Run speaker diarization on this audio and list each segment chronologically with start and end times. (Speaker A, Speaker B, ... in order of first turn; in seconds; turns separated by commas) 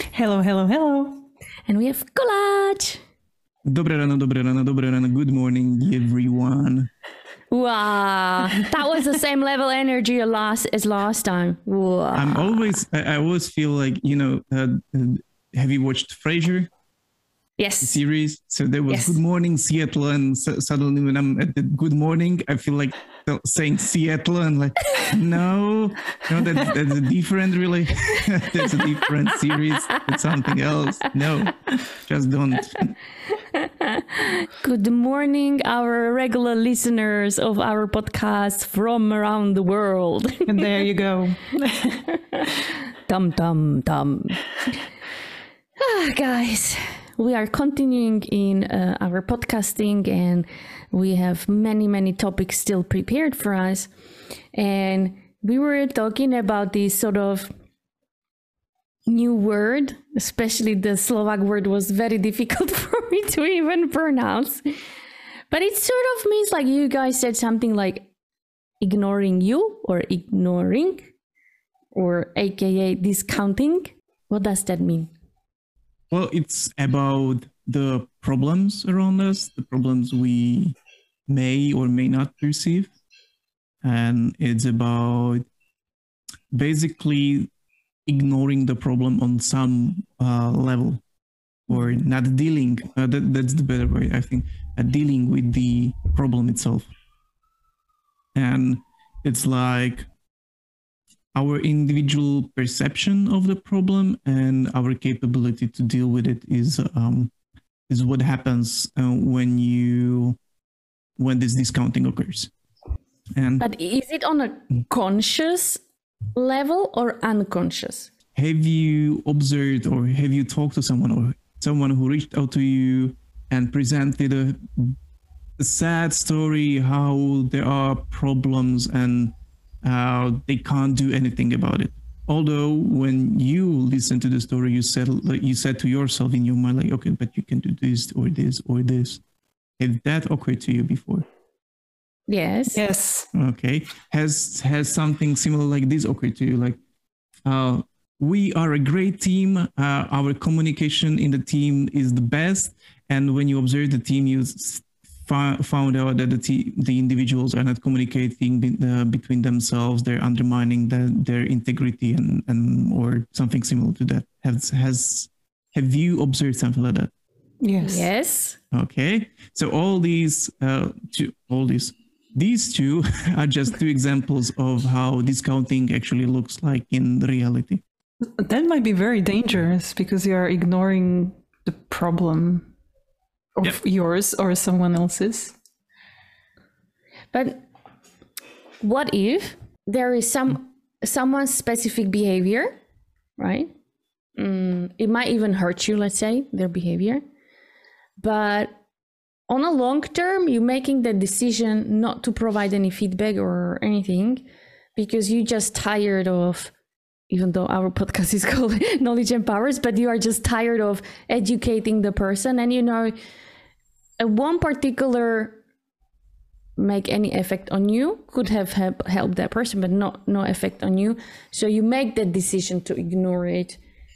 Speaker A: 0.1-1.2, Speaker B: 1.7-3.0, Speaker C: 3.6-6.9, Speaker B: 7.5-12.7, Speaker C: 12.1-16.7, Speaker B: 17.6-18.0, Speaker C: 17.8-32.9, Speaker B: 18.9-19.2, Speaker B: 33.6-40.6, Speaker A: 40.4-42.0, Speaker B: 42.2-42.5, Speaker B: 43.1-44.5, Speaker B: 45.8-53.9, Speaker B: 54.5-57.5, Speaker B: 59.1-64.6, Speaker B: 65.5-68.1, Speaker B: 68.8-71.1, Speaker B: 71.9-75.1, Speaker C: 76.1-80.7, Speaker C: 81.3-82.9, Speaker C: 83.8-85.4, Speaker C: 86.5-87.5, Speaker C: 88.0-91.0, Speaker C: 91.7-96.9, Speaker C: 98.3-100.1, Speaker C: 101.3-107.3, Speaker C: 107.9-110.4, Speaker C: 111.2-112.5, Speaker C: 113.3-113.6, Speaker B: 113.6-115.8, Speaker B: 116.3-118.1, Speaker C: 118.3-125.0, Speaker C: 125.6-139.2, Speaker C: 139.8-141.2, Speaker B: 142.3-142.8, Speaker A: 142.7-143.3, Speaker C: 143.3-146.8, Speaker C: 147.4-167.1, Speaker A: 167.6-168.1, Speaker B: 167.8-168.6, Speaker C: 168.7-177.8, Speaker A: 178.2-182.7, Speaker A: 183.6-185.5, Speaker B: 187.3-187.7, Speaker B: 188.8-192.8, Speaker B: 193.4-193.7, Speaker B: 194.4-197.2, Speaker B: 198.2-198.8, Speaker B: 199.5-204.4, Speaker B: 204.9-206.7, Speaker B: 207.3-213.1, Speaker B: 214.2-215.6, Speaker B: 216.8-223.8